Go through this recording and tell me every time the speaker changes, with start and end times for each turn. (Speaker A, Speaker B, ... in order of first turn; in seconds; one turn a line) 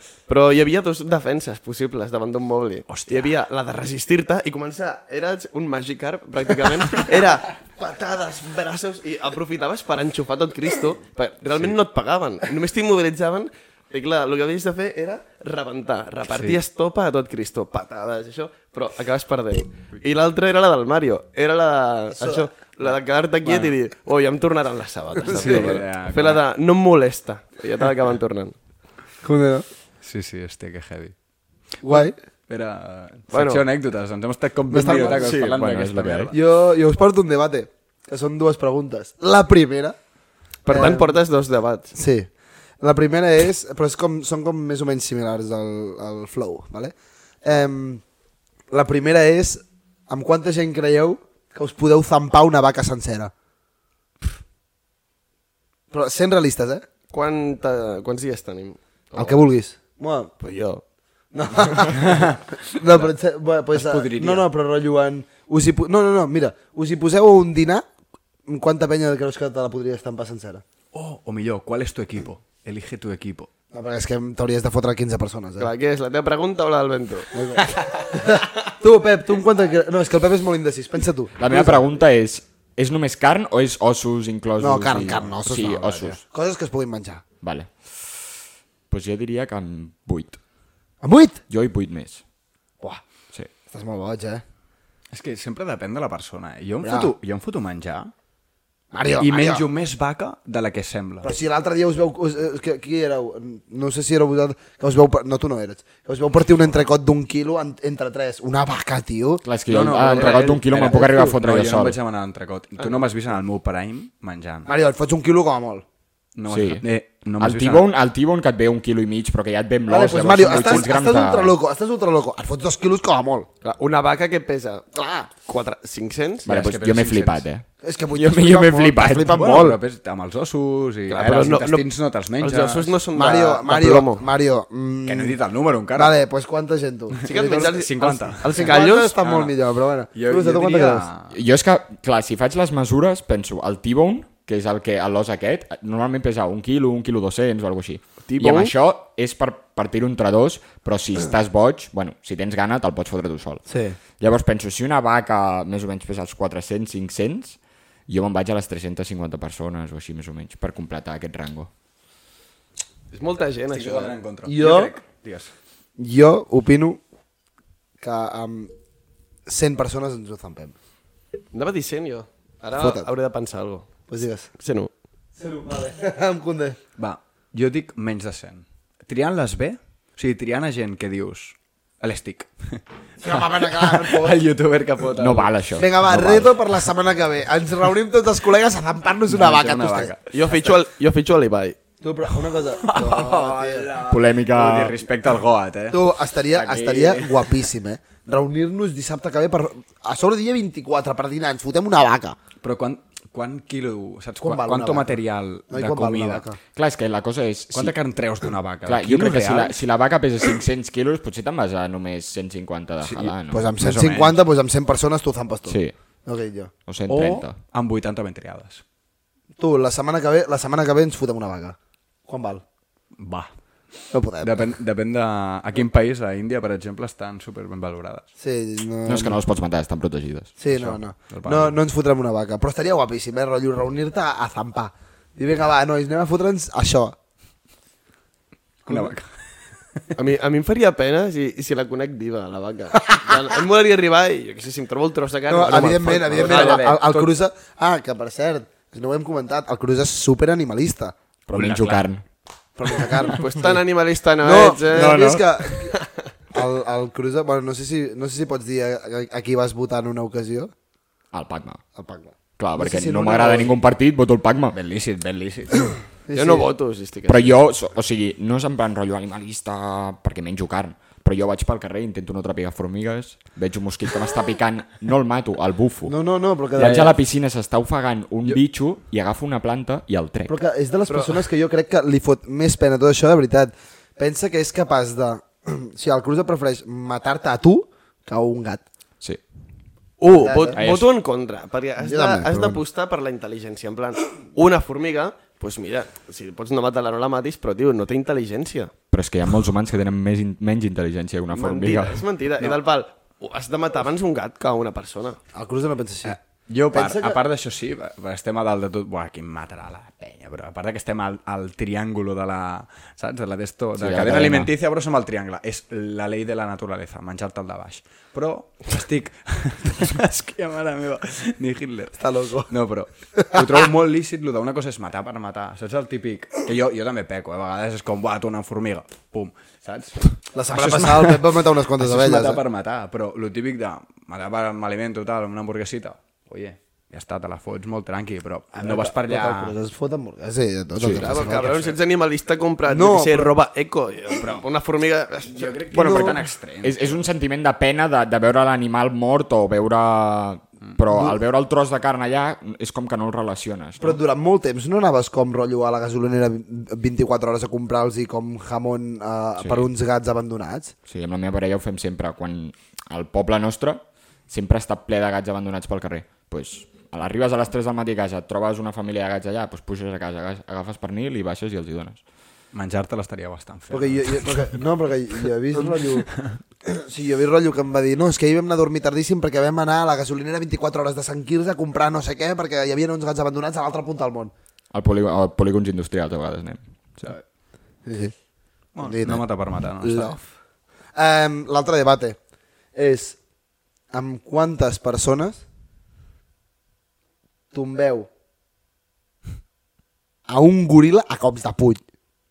Speaker A: 0.3-28.5
Speaker B: 2.9-3.4
Speaker B: 16.3-16.6
Speaker C: 22.1-22.5
Speaker B: 23.4-23.7
Speaker B: 25.3-26.4
Speaker C: 25.3-25.7
Speaker C: 29.2-29.6
Speaker B: 30.0-31.1
Speaker C: 31.8-32.1
Speaker B: 32.5-36.4
Speaker A: 33.3-33.6
Speaker C: 34.7-35.3
Speaker A: 34.8-35.5
Speaker D: 35.4-36.3
Speaker C: 36.3-40.0
Speaker A: 40.6-41.9
Speaker C: 40.7-41.2
Speaker C: 41.9-42.3
Speaker C: 42.8-48.0
Speaker C: 48.7-53.3
Speaker C: 55.9-56.8
Speaker A: 57.1-59.4
Speaker C: 59.1-60.3
Speaker A: 60.4-60.8
Speaker C: 61.3-67.8
Speaker B: 61.9-63.1
Speaker B: 63.7-64.5
Speaker C: 68.5-70.6
Speaker B: 70.9-73.5
Speaker C: 73.7-75.7
Speaker A: 75.6-77.3
Speaker C: 77.3-81.8
Speaker D: 81.4-86.2
Speaker C: 84.6-87.2
Speaker B: 85.7-86.2
Speaker D: 87.4-88.2
Speaker D: 88.9-90.4
Speaker C: 91.0-91.4
Speaker D: 91.5-92.2
Speaker C: 93.7-94.4
Speaker B: 95.1-98.1
Speaker C: 96.8-97.1
Speaker C: 98.9-99.6
Speaker B: 99.2-101.3
Speaker C: 101.2-109.4
Speaker D: 109.4-112.0
Speaker B: 109.7-114.7
Speaker C: 110.0-111.4
Speaker C: 114.7-115.8
Speaker B: 116.3-117.9
Speaker D: 116.5-116.8
Speaker D: 117.4-121.5
Speaker C: 119.9-123.5
Speaker A: 123.6-124.9
Speaker C: 124.9-125.3
Speaker A: 125.4-126.5
Speaker B: 126.5-127.4
Speaker D: 126.5-129.6
Speaker C: 127.8-129.8
Speaker B: 129.3-132.9
Speaker A: 131.1-131.9
Speaker A: 132.4-134.2
Speaker C: 133.1-135.4
Speaker B: 135.0-136.2
Speaker C: 135.9-137.8
Speaker B: 137.2-139.6
Speaker A: 137.2-139.1
Speaker C: 138.5-141.1
Speaker B: 140.1-141.4
Speaker D: 141.3-153.7
Speaker A: 148.3-148.7
Speaker C: 153.7-154.0
Speaker D: 154.2-161.7
Speaker A: 163.1-164.2
Speaker B: 163.7-165.5
Speaker C: 164.4-164.9
Speaker C: 166.0-167.0
Speaker C: 168.0-168.7
Speaker C: 169.4-170.8
Speaker A: 171.5-173.9
Speaker C: 172.8-173.1
Speaker C: 174.1-174.5
Speaker A: 174.6-174.9
Speaker C: 175.3-176.8
Speaker B: 177.0-185.5
Speaker C: 183.2-184.4
Speaker D: 185.2-186.5
Speaker C: 185.8-190.1
Speaker B: 189.3-190.3
Speaker A: 190.3-191.8
Speaker C: 192.0-193.9
Speaker B: 192.8-197.6
Speaker D: 194.1-194.9
Speaker C: 195.9-202.3
Speaker B: 202.6-206.4
Speaker C: 204.4-205.1
Speaker C: 205.7-206.6
Speaker D: 206.7-208.0
Speaker B: 207.7-209.8
Speaker D: 208.8-213.6
Speaker B: 213.0-214.4
Speaker C: 213.5-216.7
Speaker D: 215.7-215.9
Speaker D: 216.9-217.5
Speaker B: 217.1-218.8
Speaker C: 219.6-222.6
Speaker B: 223.2-223.5
Speaker C: 224.1-224.6
Speaker B: 224.4-228.3
Speaker C: 228.4-229.4
Speaker D: 229.0-230.5
Speaker C: 230.6-237.1
Speaker B: 230.7-231.8
Speaker B: 238.8-240.1
Speaker C: 238.9-239.1
Speaker A: 240.2-247.0
Speaker C: 245.5-251.1
Speaker B: 245.7-247.3
Speaker D: 251.5-252.2
Speaker B: 251.5-252.1
Speaker C: 252.8-253.4
Speaker A: 253.2-255.3
Speaker C: 254.4-255.9
Speaker D: 254.9-255.4
Speaker C: 256.5-260.7
Speaker D: 261.3-261.8
Speaker C: 261.9-263.7
Speaker D: 262.6-264.8
Speaker B: 264.7-265.9
Speaker C: 266.2-266.7
Speaker A: 266.3-267.6
Speaker D: 267.2-276.1
Speaker C: 276.1-277.1
Speaker D: 276.8-280.5
Speaker B: 276.8-277.1
Speaker C: 280.5-288.8
Speaker A: 281.1-281.4
Speaker A: 290.2-298.9
Speaker C: 290.3-290.8
Speaker D: 290.8-291.1
Speaker C: 292.0-292.8
Speaker D: 299.1-302.2
Speaker A: 301.5-305.4
Speaker C: 305.5-306.4
Speaker B: 306.2-339.8
Speaker C: 306.9-307.4
Speaker D: 314.0-314.7
Speaker C: 322.2-322.7
Speaker C: 323.3-323.6
Speaker C: 330.5-332.6
Speaker C: 338.7-341.8
Speaker D: 341.0-341.3
Speaker A: 341.2-345.8
Speaker B: 341.4-341.9
Speaker C: 342.9-343.5
Speaker B: 344.4-344.6
Speaker B: 345.5-347.2
Speaker D: 345.9-354.2
Speaker C: 345.9-346.4
Speaker C: 351.1-351.4
Speaker C: 354.0-360.9
Speaker D: 359.6-359.9
Speaker D: 361.1-372.2
Speaker B: 372.7-374.8
Speaker C: 373.9-376.3
Speaker B: 376.3-376.6
Speaker C: 376.8-384.5
Speaker D: 384.9-386.8
Speaker C: 388.0-388.3
Speaker B: 388.9-390.4
Speaker C: 389.0-389.5
Speaker C: 390.0-390.4
Speaker C: 391.1-392.4
Speaker C: 392.9-393.4
Speaker C: 394.1-395.6
Speaker C: 397.7-398.3
Speaker C: 400.5-402.0